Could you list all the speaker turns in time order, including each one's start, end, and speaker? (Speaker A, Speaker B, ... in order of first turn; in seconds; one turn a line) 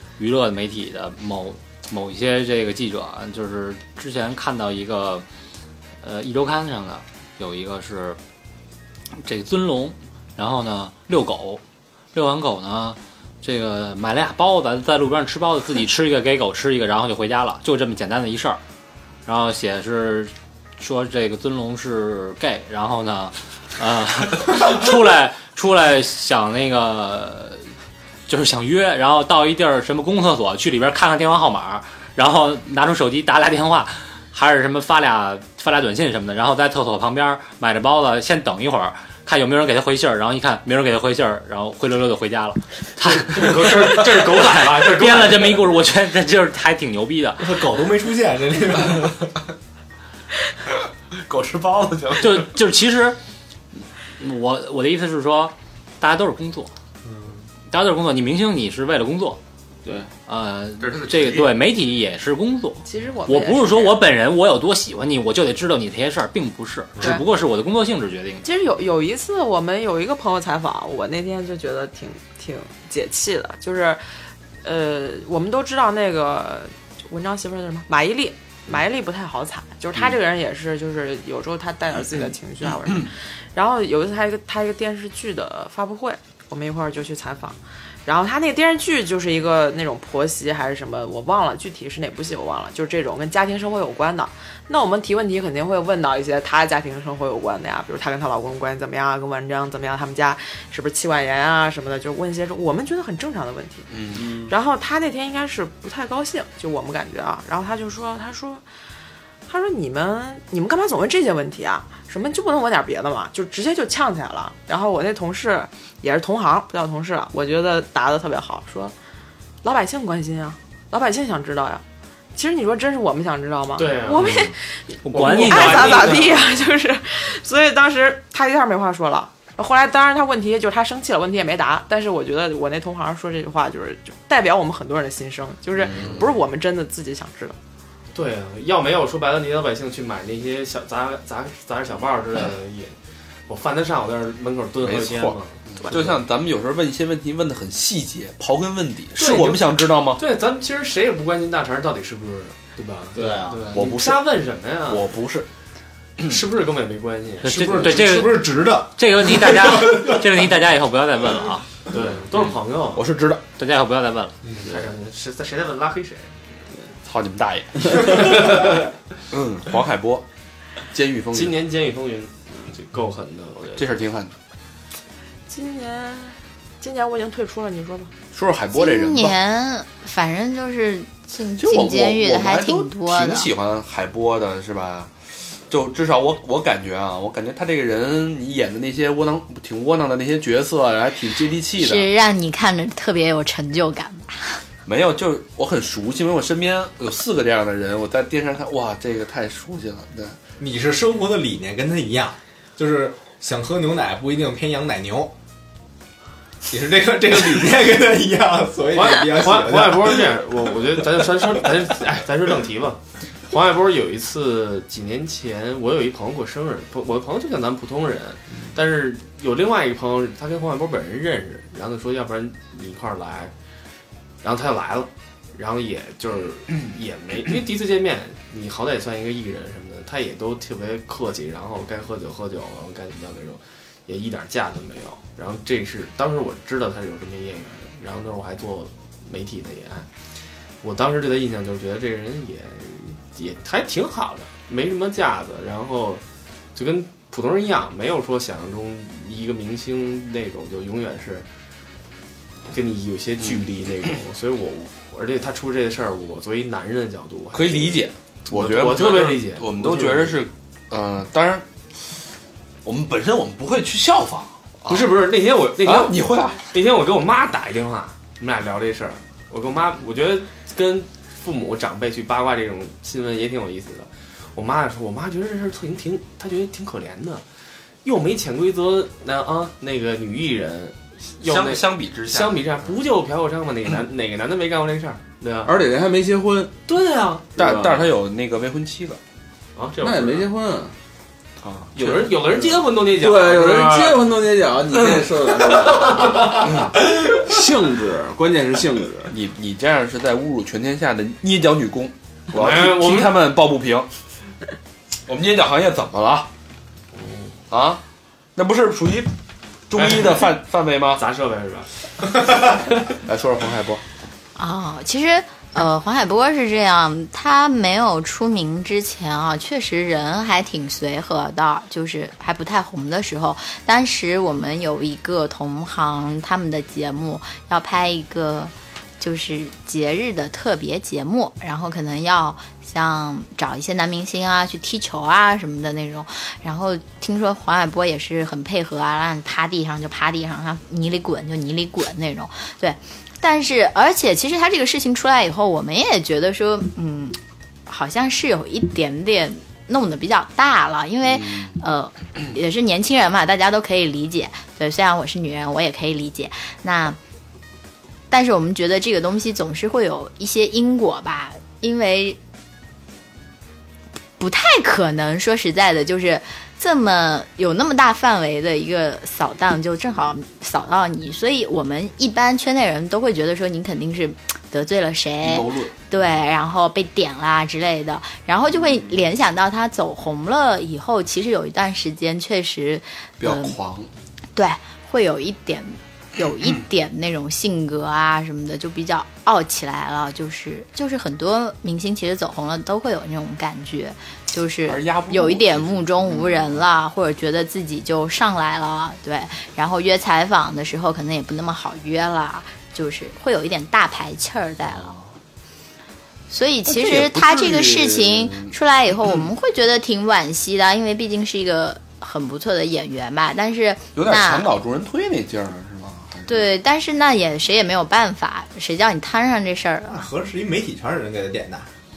Speaker A: 0.2-5.2
Speaker A: 6.0-8.2
Speaker A: 9.2-11.6
Speaker A: 12.1-18.6
Speaker A: 19.2-27.7
Speaker A: 28.3-47.8
Speaker B: 43.1-45.6
Speaker C: 47.4-49.3
Speaker D: 51.1-52.5
Speaker A: 52.2-53.2
Speaker A: 54.2-56.7
Speaker C: 57.0-57.4
Speaker A: 57.7-59.4
Speaker A: 60.3-68.5
Speaker D: 60.8-61.6
Speaker E: 62.9-64.0
Speaker E: 68.4-74.0
Speaker E: 74.6-108.6
Speaker D: 103.9-104.3
Speaker F: 104.2-104.6
Speaker E: 109.5-118.9
Speaker E: 119.6-121.8
Speaker E: 122.3-137.6
Speaker B: 123.8-124.5
Speaker A: 124.2-124.5
Speaker B: 125.0-126.7
Speaker A: 125.1-126.3
Speaker D: 135.8-136.3
Speaker B: 138.1-142.9
Speaker B: 143.5-146.2
Speaker D: 144.8-150.2
Speaker B: 149.2-155.1
Speaker C: 153.2-153.5
Speaker F: 153.2-153.5
Speaker D: 153.7-154.3
Speaker D: 154.9-155.5
Speaker B: 156.2-158.3
Speaker A: 157.4-161.7
Speaker C: 157.4-160.4
Speaker B: 161.9-163.1
Speaker D: 162.9-163.4
Speaker A: 163.6-164.4
Speaker C: 164.5-164.8
Speaker B: 164.6-166.7
Speaker D: 167.0-168.5
Speaker B: 168.1-168.8
Speaker D: 169.3-170.3
Speaker D: 170.9-171.6
Speaker B: 171.3-174.0
Speaker D: 173.8-174.3
Speaker E: 175.5-178.1
Speaker D: 178.3-179.4
Speaker G: 178.7-183.5
Speaker D: 181.6-185.1
Speaker D: 185.7-192.1
Speaker G: 191.8-194.6
Speaker D: 194.9-200.4
Speaker C: 200.6-205.3
Speaker C: 206.7-210.3
Speaker B: 208.9-223.5
Speaker B: 224.4-240.1
Speaker B: 240.8-246.2
Speaker B: 246.8-251.5
Speaker B: 252.7-260.5
Speaker D: 257.5-261.7
Speaker D: 262.8-265.2
Speaker B: 264.9-277.4
Speaker D: 265.8-266.6
Speaker B: 278.0-285.8
Speaker D: 281.4-282.8
Speaker F: 285.6-286.7
Speaker B: 286.9-288.1
Speaker D: 287.6-289.2
Speaker B: 289.8-290.5
Speaker F: 290.0-290.9
Speaker D: 291.6-292.5
Speaker B: 291.9-294.3
Speaker F: 293.1-299.3
Speaker B: 296.2-296.5
Speaker D: 299.3-304.1
Speaker B: 302.5-303.5
Speaker D: 305.3-306.5
Speaker B: 307.1-307.6
Speaker D: 307.7-308.0
Speaker D: 308.6-309.3
Speaker D: 309.9-311.2
Speaker B: 309.9-310.5
Speaker B: 311.1-312.9
Speaker D: 313.2-314.0
Speaker G: 314.6-357.2
Speaker D: 351.2-351.8
Speaker G: 358.3-362.4
Speaker G: 364.4-383.8
Speaker D: 375.4-375.9
Speaker D: 383.4-384.1
Speaker G: 384.6-405.1
Speaker D: 394.9-396.8
Speaker G: 406.5-414.7
Speaker D: 406.9-409.5
Speaker D: 414.2-416.7
Speaker G: 416.5-420.3
Speaker C: 420.1-421.9